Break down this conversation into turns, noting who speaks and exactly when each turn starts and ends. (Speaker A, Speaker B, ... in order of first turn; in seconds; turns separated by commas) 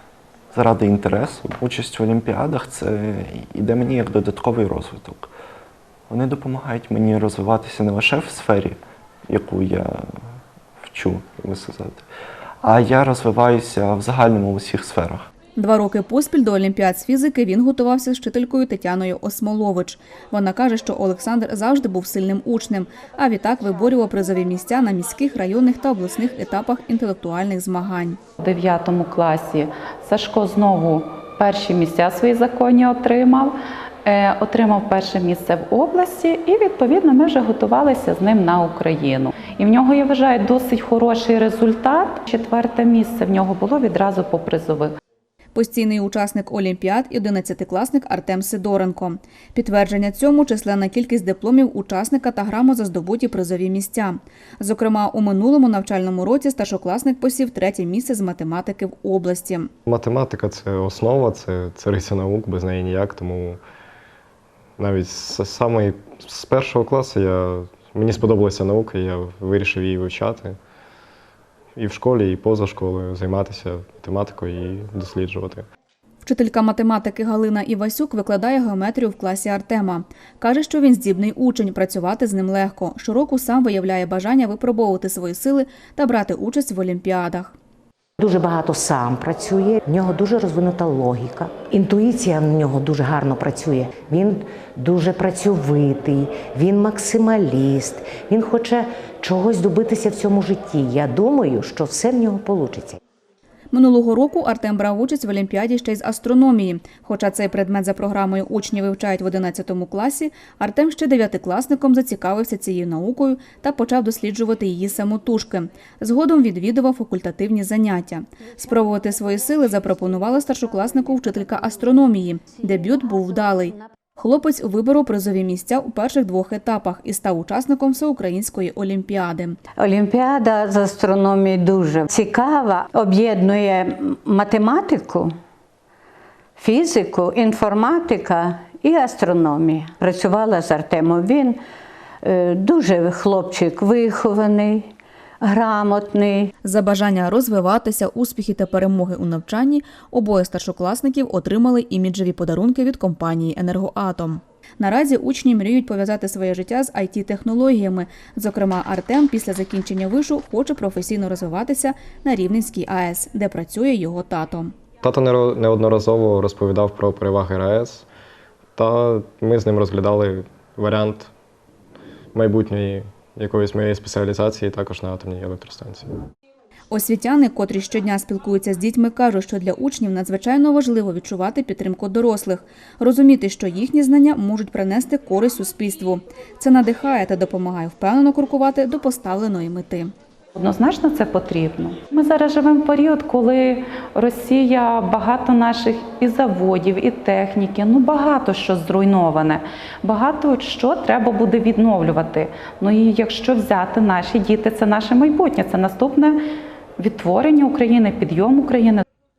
Speaker A: 0.5-5.3, Speaker A: 6.1-10.0, Speaker A: 10.8-12.0, Speaker A: 12.6-15.3, Speaker B: 15.6-28.2, Speaker C: 28.4-33.5, Speaker C: 34.0-44.9, Speaker B: 45.5-59.7, Speaker D: 59.9-63.6, Speaker D: 64.8-70.6, Speaker D: 71.8-75.7, Speaker B: 76.2-87.5, Speaker E: 88.2-103.0, Speaker B: 103.7-129.6, Speaker F: 129.8-135.3, Speaker F: 136.6-141.6, Speaker F: 142.2-144.8, Speaker F: 145.4-146.5, Speaker B: 146.6-164.7, Speaker D: 165.0-168.1, Speaker D: 168.8-171.3, Speaker D: 172.3-176.1, Speaker B: 176.9-190.1, Speaker C: 190.6-206.4, Speaker C: 207.0-209.0